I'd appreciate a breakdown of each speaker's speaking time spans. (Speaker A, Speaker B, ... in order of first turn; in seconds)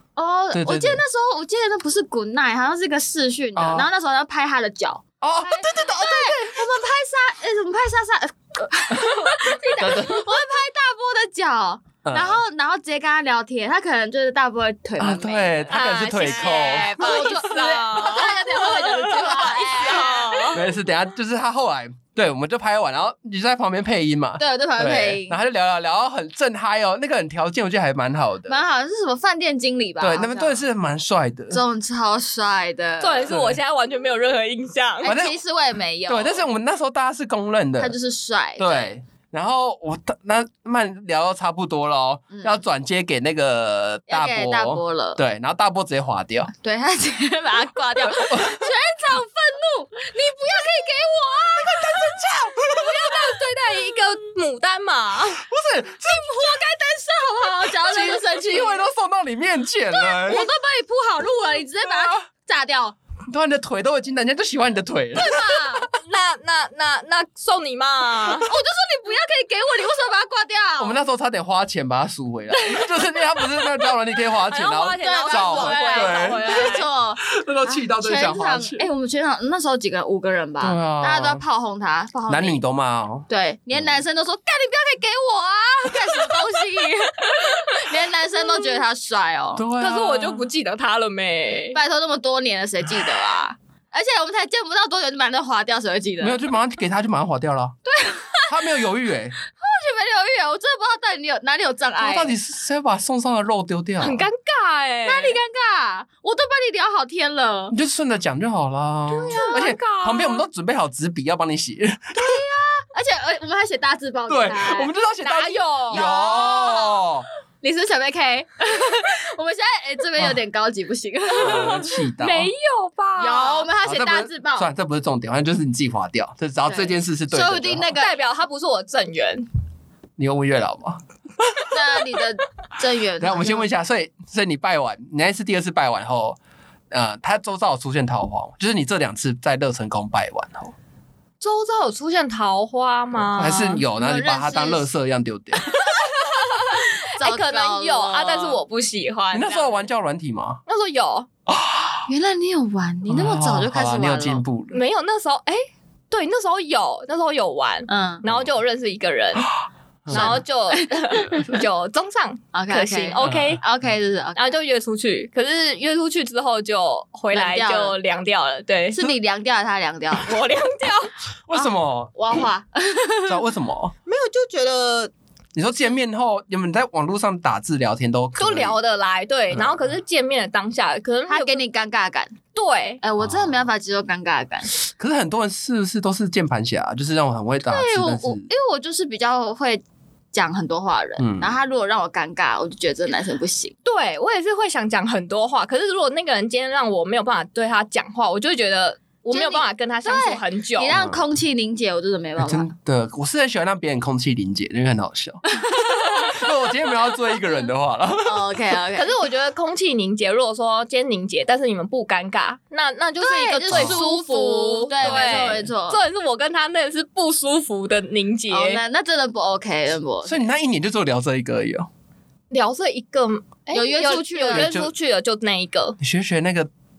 Speaker A: 0.1-20.6, 24.4-25.4, 28.5-30.6, 31.5-33.3, 35.0-36.5, 37.8-38.9, 42.3-42.6, 44.1-45.2, 46.6-52.2, 56.0-58.9, 59.9-62.9, 65.1-65.9, 68.4-71.0, 72.5-73.9, 75.0-82.6, 83.3-89.6, 91.7-96.4, 97.8-98.6, 99.5-102.3, 105.0-107.7, 109.3-109.7, 112.2-114.9, 115.9-117.0, 117.6-122.0, 123.2-124.7, 126.7-128.2, 131.7-133.7, 143.4-144.9, 147.0-148.6, 152.1-154.4, 157.9-158.2, 160.1-161.4, 162.5-164.4, 167.3-167.9, 168.9-170.3, 171.5-173.4, 181.3-182.4, 183.0-184.7, 187.7-193.8, 199.3-202.7, 205.5-206.3, 208.2-209.1, 213.2-216.0, 218.5-220.5, 223.7-224.7
Speaker B: 0.5-1.0, 3.5-3.9, 5.2-6.7, 8.9-10.2, 12.0-12.4, 15.0-17.3, 20.5-28.6, 30.0-31.6, 33.3-33.6, 35.0-35.4, 36.1-37.9, 38.6-46.5, 48.1-48.7, 51.5-53.3, 55.4-56.6, 57.8-60.5, 61.8-62.2, 63.3-65.8, 70.8-76.7, 77.3-78.9, 80.6-81.4, 82.3-83.9, 89.5-90.5, 96.2-97.8, 98.5-99.4, 102.0-104.3, 107.7-112.4, 114.3-117.3, 121.4-122.5, 123.8-127.9, 130.2-131.8, 133.2-136.4, 136.9-140.7, 143.3-145.9, 149.3-150.6, 151.5-152.0, 153.1-154.8, 160.1-160.4, 163.2-163.6, 171.5-172.1, 173.3-173.9, 175.5-178.8, 179.5-180.0, 183.2-183.7, 184.9-188.4, 191.2-191.5, 200.9-201.2, 202.4-208.6, 213.7-214.0, 215.0-215.7, 220.2-221.9, 224.5-224.9, 226.0-226.7
Speaker C: 15.7-20.6, 33.0-35.1, 52.7-55.5, 66.0-68.5, 74.5-76.9, 89.8-91.8, 104.0-105.4, 109.1-110.4, 115.2-116.1, 122.2-123.7, 127.9-129.4, 141.4-143.8, 146.1-149.9, 150.7-151.3, 154.7-159.5, 160.1-163.6, 164.3-169.0, 170.2-171.2, 174.1-175.1, 178.4-181.6, 182.5-183.0, 193.8-200.9, 208.9-218.8, 222.5-226.0